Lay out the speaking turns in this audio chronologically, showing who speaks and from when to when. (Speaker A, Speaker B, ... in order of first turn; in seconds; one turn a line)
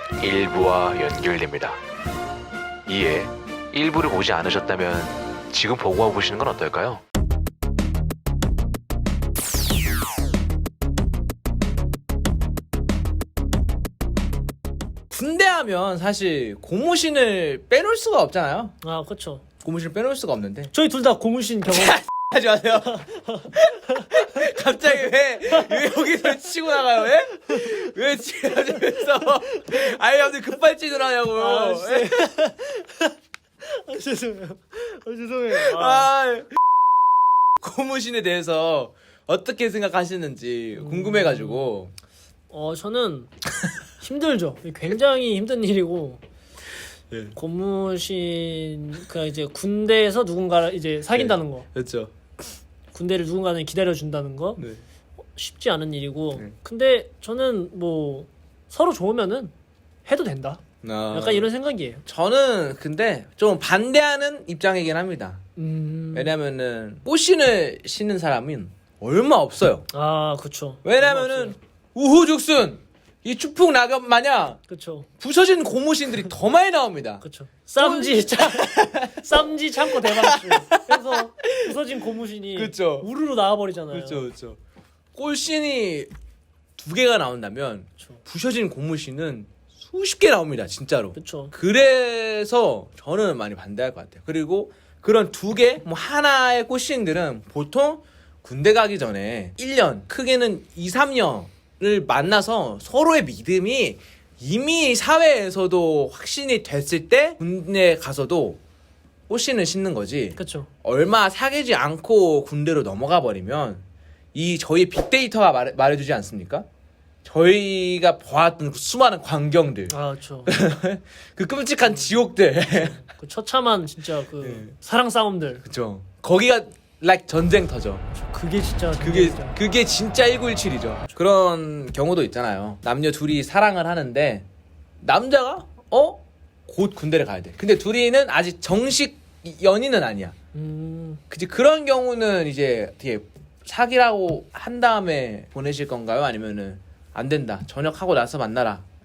Speaker A: 0.2-1.8
Speaker B: 0.3-1.6
Speaker A: 2.9-7.0
Speaker B: 3.8-4.9
Speaker B: 15.1-18.8
Speaker C: 18.8-19.4
Speaker B: 19.6-20.7
Speaker C: 20.7-22.0
Speaker B: 21.7-32.2
Speaker C: 23.0-24.1
Speaker C: 31.4-36.1
Speaker B: 35.5-36.5
Speaker B: 37.6-41.9
Speaker C: 40.8-41.7
Speaker C: 42.5-43.3
Speaker C: 44.0-46.2
Speaker C: 47.3-51.7
Speaker B: 51.1-52.1
Speaker C: 52.9-54.6
Speaker B: 54.6-54.8
Speaker C: 55.3-59.5
Speaker C: 60.1-62.0
Speaker B: 60.8-61.5
Speaker B: 62.1-65.4
Speaker C: 65.6-66.3
Speaker B: 66.1-69.9
Speaker C: 69.9-71.6
Speaker B: 70.8-74.6
Speaker C: 74.7-75.1
Speaker B: 75.2-77.2
Speaker C: 77.2-84.3
Speaker B: 77.8-81.9
Speaker B: 82.5-83.1
Speaker B: 83.9-84.6
Speaker B: 85.2-86.1
Speaker B: 86.8-108.6
Speaker C: 88.0-88.2
Speaker C: 91.2-91.5
Speaker B: 109.3-116.7
Speaker C: 110.3-110.7
Speaker B: 117.2-119.9
Speaker C: 119.9-120.5
Speaker B: 120.5-123.0
Speaker C: 121.8-125.6
Speaker B: 124.4-124.7
Speaker B: 125.6-128.1
Speaker C: 128.1-129.6
Speaker B: 129.0-134.5
Speaker B: 135.0-140.3
Speaker C: 140.5-141.2
Speaker B: 141.3-148.8